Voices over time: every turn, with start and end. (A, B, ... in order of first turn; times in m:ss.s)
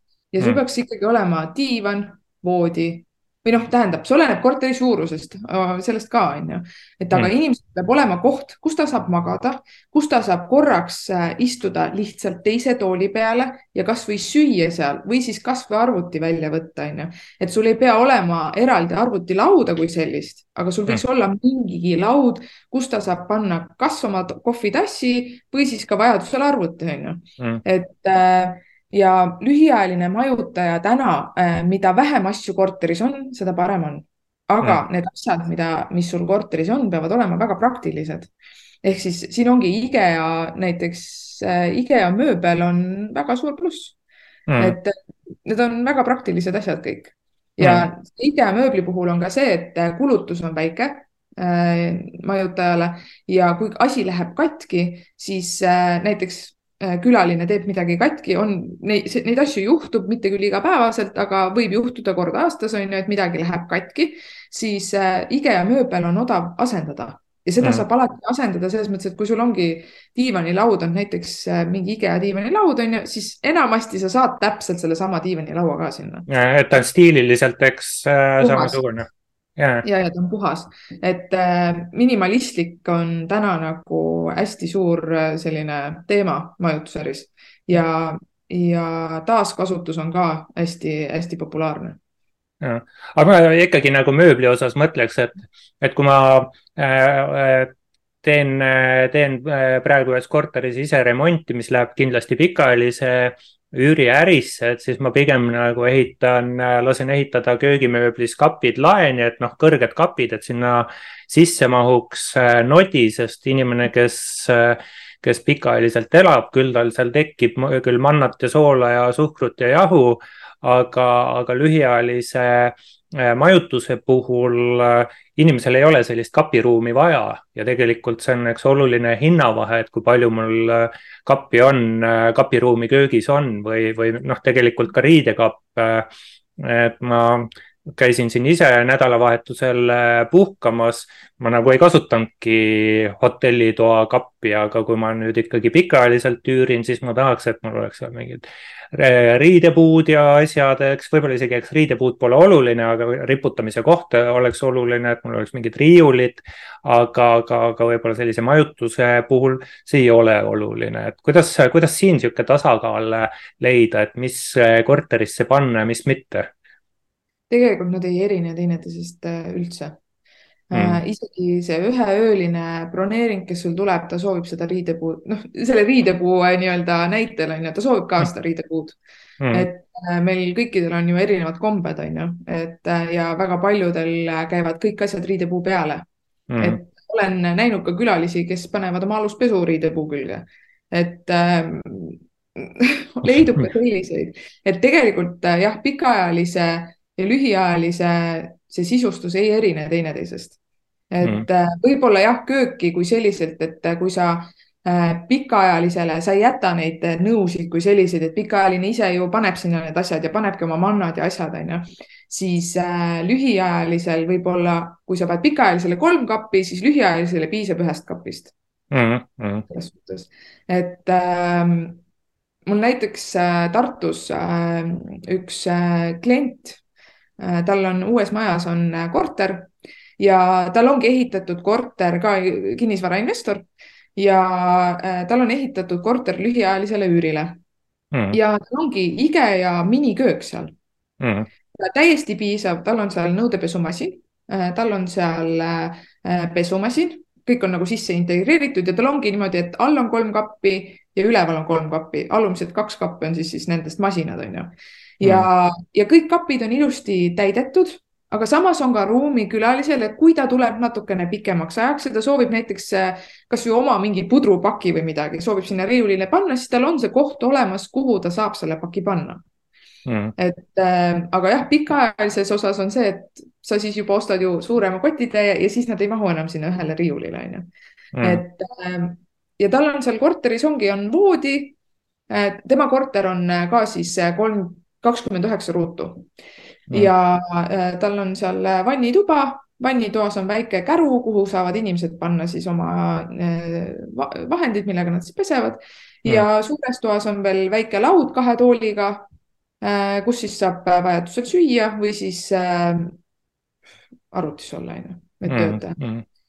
0:00.3-0:38.3 A
0:38.8-0:44.0 A
0:44.5-0:44.8 B
0:44.6-1:16.3 A
0:47.6-0:47.9 B
1:16.3-1:19.8 B
1:18.4-1:18.8 A
1:19.8-1:32.0 A
1:32.6-2:46.5 B
2:47.5-2:50.0 A
2:50.7-2:59.0 A
2:50.7-2:51.0 B
2:59.4-2:59.7 B
2:59.5-3:06.0 A
3:06.5-3:06.8 B
3:06.6-3:20.6 A
3:21.1-3:38.5 A
3:38.9-3:39.6 B
3:39.7-3:42.0 A
3:42.7-3:46.8 A
3:47.4-3:57.6 A
3:58.1-3:58.4 B
3:58.3-4:00.8 A
4:01.2-4:01.5 B
4:01.7-4:29.4 A
4:15.2-4:15.5 B
4:30.0-4:30.3 B
4:30.4-4:37.7 A
4:38.2-4:38.4 B
4:38.2-4:41.8 A
4:42.3-4:46.3 A
4:46.9-4:59.3 A
4:59.8-5:03.2 A
5:04.3-5:06.0 A
5:05.5-5:06.2 B